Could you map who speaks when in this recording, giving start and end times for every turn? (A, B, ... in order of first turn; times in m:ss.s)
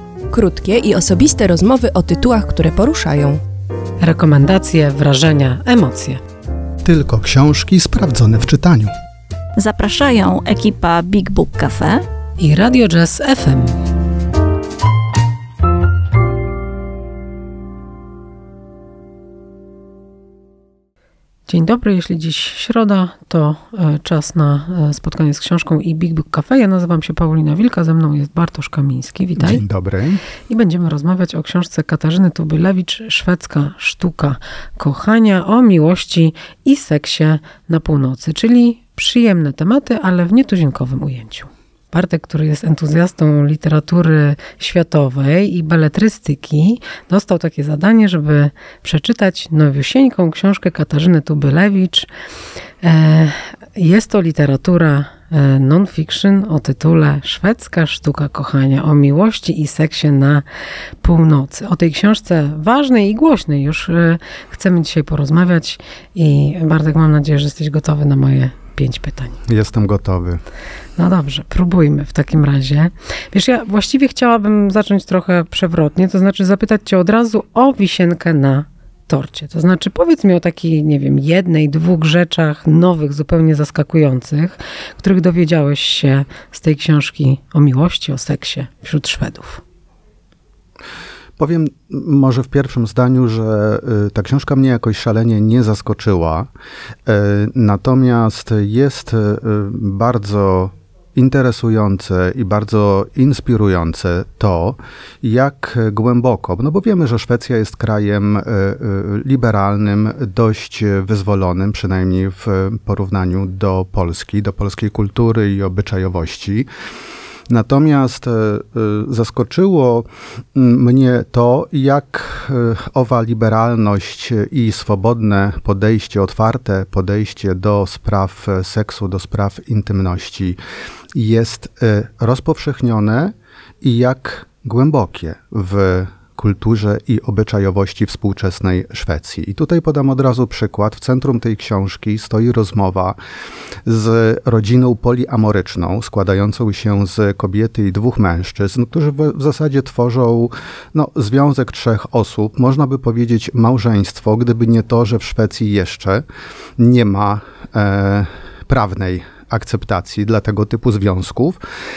0:00.3-0:03.4 A
0:04.0-0:06.2 B
0:06.8-0:08.9 C
0:09.6-0:12.0 D
0:12.4-0:13.8 B
0:21.5-0:29.6 B
0:29.4-0:30.2 C
0:30.5-0:52.1 B
0:52.8-1:00.4 B
1:01.0-1:09.4 B
1:09.4-1:10.4 C
1:11.0-1:29.6 B
1:31.4-1:36.5 C
1:37.0-1:56.7 C
1:57.5-2:10.6 C
2:11.1-2:23.2 C
2:23.8-2:36.2 C
2:36.8-2:41.6 C